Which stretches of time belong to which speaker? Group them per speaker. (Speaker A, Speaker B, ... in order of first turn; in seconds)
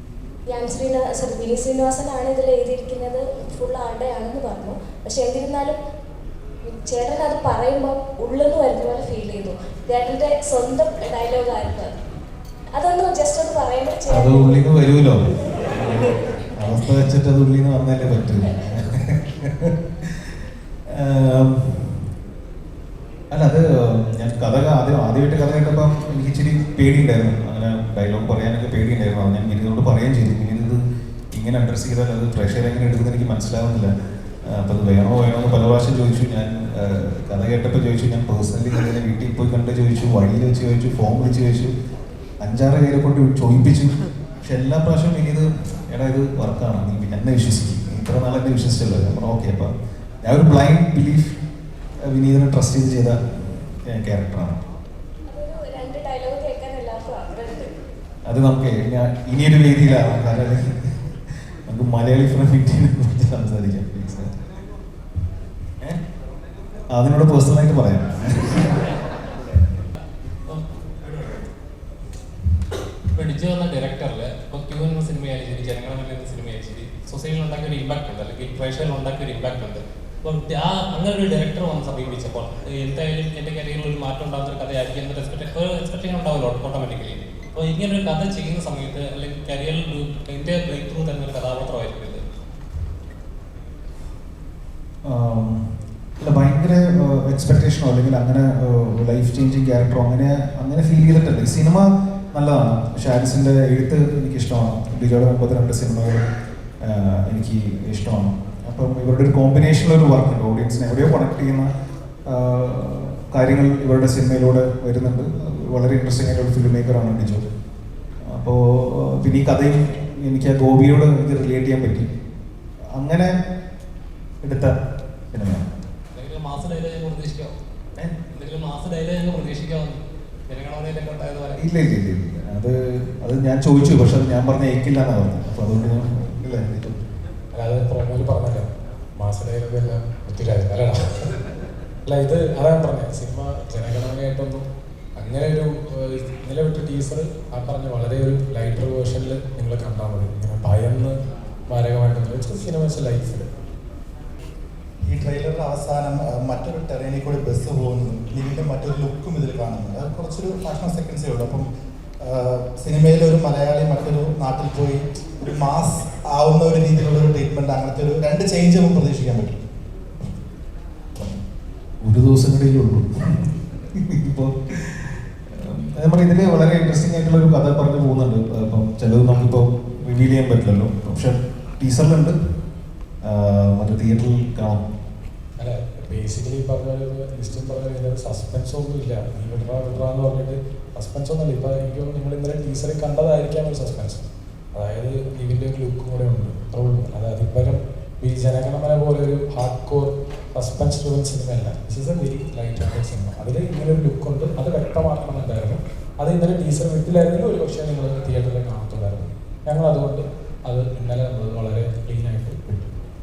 Speaker A: 0.5-5.8, 6.7-11.9, 12.7-14.7, 55.3-57.7
Speaker B: 14.1-20.2, 20.9-22.1, 23.3-30.8, 31.3-33.9, 34.5-41.7, 42.4-49.7, 50.2-51.3, 52.1-54.6, 58.3-60.7, 61.7-64.3, 66.9-68.8, 95.0-95.6, 96.2-106.2, 106.8-111.7, 112.3-117.5, 118.2-122.1, 122.9-123.3, 124.4-124.7, 125.3-125.7, 131.6-137.0, 172.0-182.3, 183.2-184.8
Speaker C: 73.1-92.2, 126.1-127.5, 128.3-131.6
Speaker D: 137.5-141.0, 142.1-144.7, 145.2-151.1, 151.7-153.5, 185.6-212.9
Speaker E: 155.0-161.7, 162.2-169.6